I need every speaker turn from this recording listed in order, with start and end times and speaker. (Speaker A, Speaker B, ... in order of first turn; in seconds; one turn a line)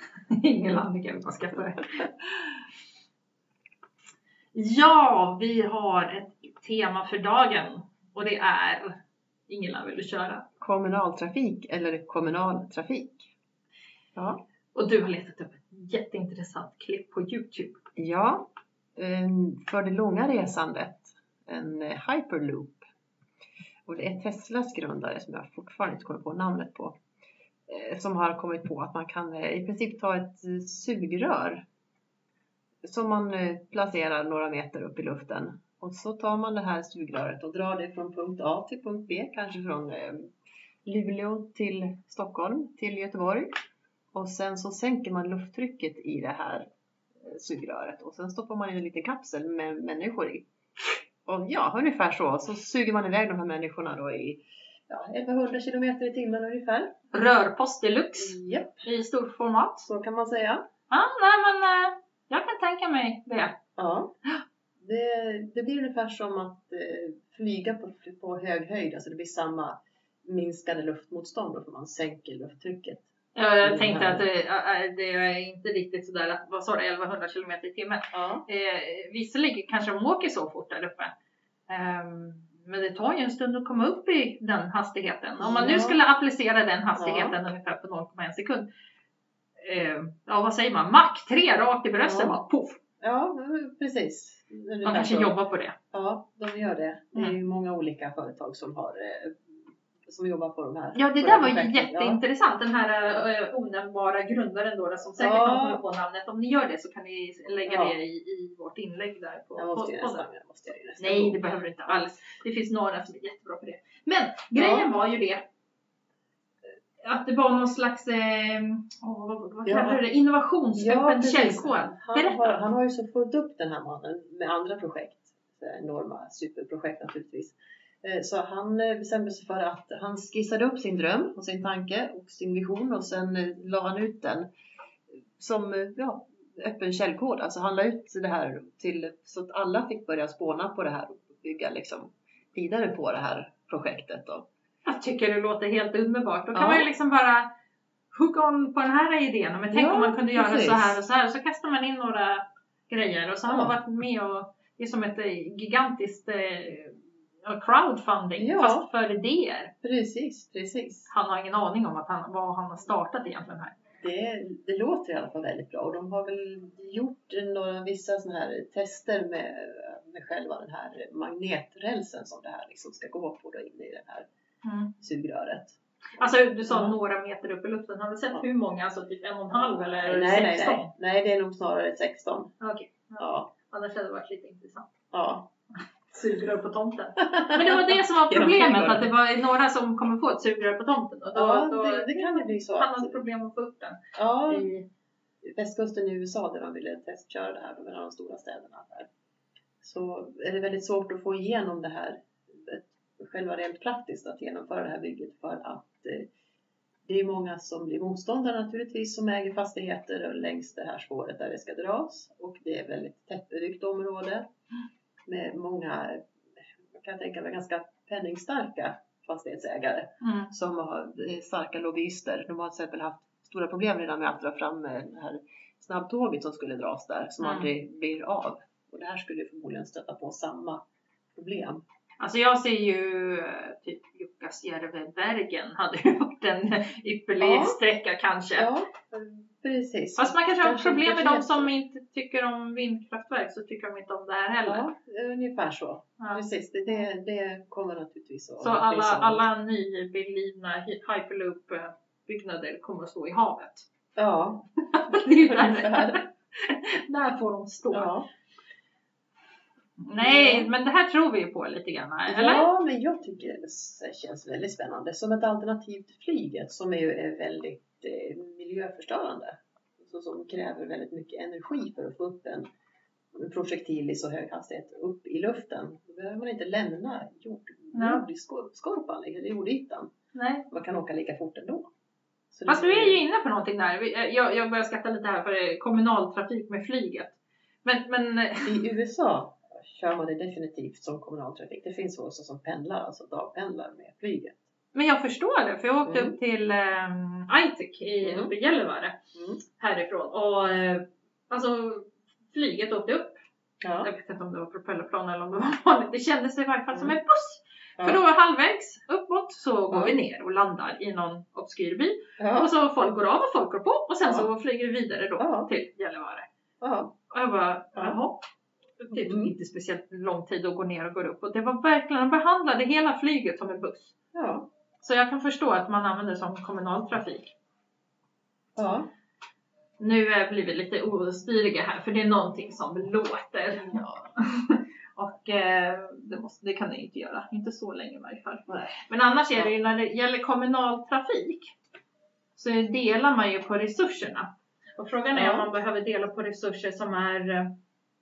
Speaker A: 0.3-2.1
Speaker A: 4.5-8.9
Speaker A: 9.5-10.4
Speaker B: 10.6-13.3
Speaker B: 14.2-14.4
Speaker A: 14.7-17.8
Speaker B: 18.0-22.8
Speaker B: 23.9-27.0
Speaker B: 27.7-31.6
Speaker B: 32.8-40.3
Speaker B: 40.9-43.5
Speaker B: 44.1-46.7
Speaker B: 47.2-50.5
Speaker B: 51.2-56.9
Speaker A: 57.1-59.9
Speaker B: 58.2-58.8
Speaker B: 59.9-60.6
Speaker A: 60.9-63.6
Speaker B: 63.8-64.1
Speaker B: 64.8-73.1
Speaker A: 73.3-81.1
Speaker B: 73.6-74.2
Speaker B: 78.1-78.4
Speaker A: 81.7-88.7
Speaker B: 85.4-86.0
Speaker B: 87.0-87.3
Speaker A: 89.6-92.8
Speaker B: 92.0-92.3
Speaker B: 93.0-95.3
Speaker A: 94.8-95.8
Speaker B: 95.9-102.2
Speaker A: 100.9-110.2
Speaker B: 105.2-105.8
Speaker B: 107.6-108.0
Speaker B: 109.5-111.4
Speaker A: 111.0-115.4
Speaker B: 114.5-114.9
Speaker A: 117.0-122.6
Speaker B: 119.7-120.0
Speaker B: 120.8-134.5
Speaker B: 135.4-144.5
Speaker A: 144.8-147.5
Speaker B: 146.5-146.9
Speaker A: 148.1-159.7
Speaker B: 149.7-151.0
Speaker B: 153.5-153.8
Speaker B: 158.4-158.9
Speaker B: 159.8-161.1
Speaker A: 161.1-163.7
Speaker B: 164.0-174.3
Speaker A: 174.6-174.9
Speaker B: 175.0-176.9
Speaker A: 176.2-180.9
Speaker B: 179.6-182.5
Speaker A: 182.6-184.9
Speaker B: 183.2-183.5
Speaker B: 185.1-185.5
Speaker A: 186.1-194.0
Speaker B: 187.2-189.1
Speaker B: 191.3-193.2
Speaker B: 194.1-194.7
Speaker A: 194.5-194.8
Speaker B: 195.4-199.1
Speaker B: 199.8-206.3
Speaker B: 207.0-214.4
Speaker B: 215.3-216.3
Speaker B: 216.9-230.8
Speaker A: 220.2-220.5
Speaker A: 227.4-227.7
Speaker B: 231.3-231.8
Speaker A: 232.2-238.7
Speaker B: 237.4-237.8
Speaker B: 238.6-241.7
Speaker A: 240.2-244.9
Speaker B: 244.7-249.5
Speaker A: 246.2-246.4
Speaker A: 248.6-253.9
Speaker B: 254.2-256.2
Speaker A: 254.9-258.1
Speaker B: 257.9-258.2
Speaker A: 260.0-262.7
Speaker B: 260.2-260.7
Speaker B: 262.3-272.6
Speaker B: 273.3-280.1
Speaker A: 277.9-278.2
Speaker A: 280.3-280.7
Speaker B: 280.7-281.9
Speaker B: 282.5-283.2
Speaker A: 282.7-288.8
Speaker B: 288.6-294.6
Speaker A: 294.9-299.1
Speaker B: 296.0-296.3
Speaker B: 298.2-298.5
Speaker B: 299.3-299.6
Speaker A: 299.8-303.4
Speaker B: 303.8-304.1
Speaker A: 304.0-316.5
Speaker B: 306.9-307.2
Speaker B: 309.9-310.2
Speaker B: 312.4-312.7
Speaker B: 314.2-314.5
Speaker B: 315.4-315.7
Speaker B: 316.8-317.1
Speaker A: 317.3-318.4
Speaker A: 319.0-324.1
Speaker B: 319.1-319.5
Speaker B: 324.3-324.7
Speaker A: 325.0-327.5
Speaker B: 328.8-329.1
Speaker A: 330.0-334.0
Speaker B: 333.7-334.3
Speaker A: 334.5-341.7
Speaker B: 338.7-338.9
Speaker A: 342.5-347.8
Speaker B: 345.3-345.7